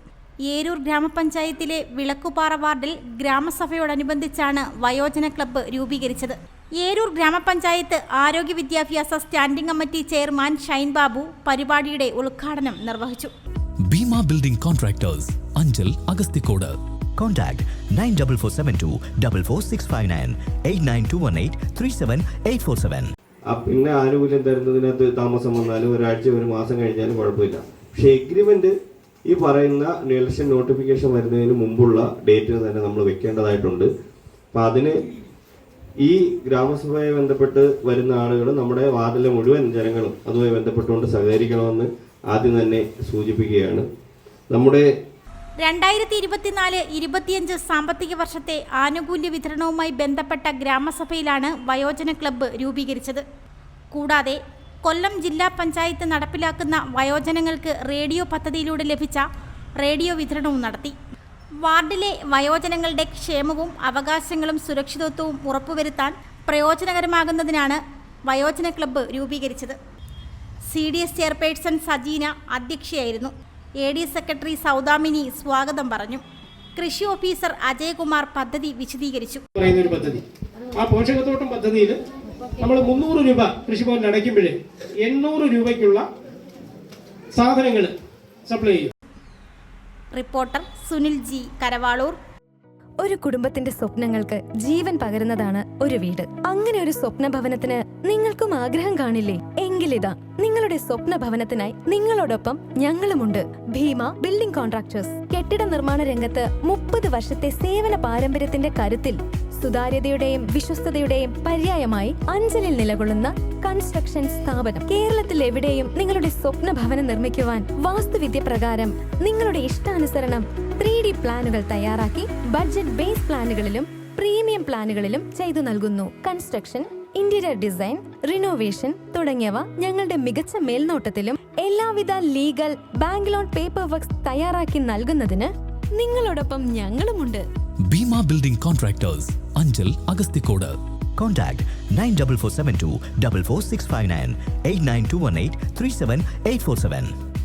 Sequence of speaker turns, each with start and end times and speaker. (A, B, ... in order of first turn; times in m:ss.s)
0:00.4-0:13.3 A
0:13.9-0:16.8 B
0:17.2-0:23.0 C
0:23.5-0:28.7 D
0:29.3-0:33.9 D
0:34.5-0:35.0 D
0:36.0-0:43.8 D
0:44.5-0:44.8 D
0:45.6-0:53.2 A
0:53.9-0:59.2 A
0:59.8-1:01.0 A
1:01.6-1:09.8 A
1:10.7-1:16.2 A
1:16.8-1:19.4 A
1:19.6-1:20.2 E
1:20.7-1:22.0 E
1:22.6-1:26.0 E
1:27.3-1:27.9 E
1:28.5-1:28.9 E
1:30.1-1:32.2 A
1:33.0-2:17.4 F
2:17.9-2:20.8 B
2:21.2-2:27.1 C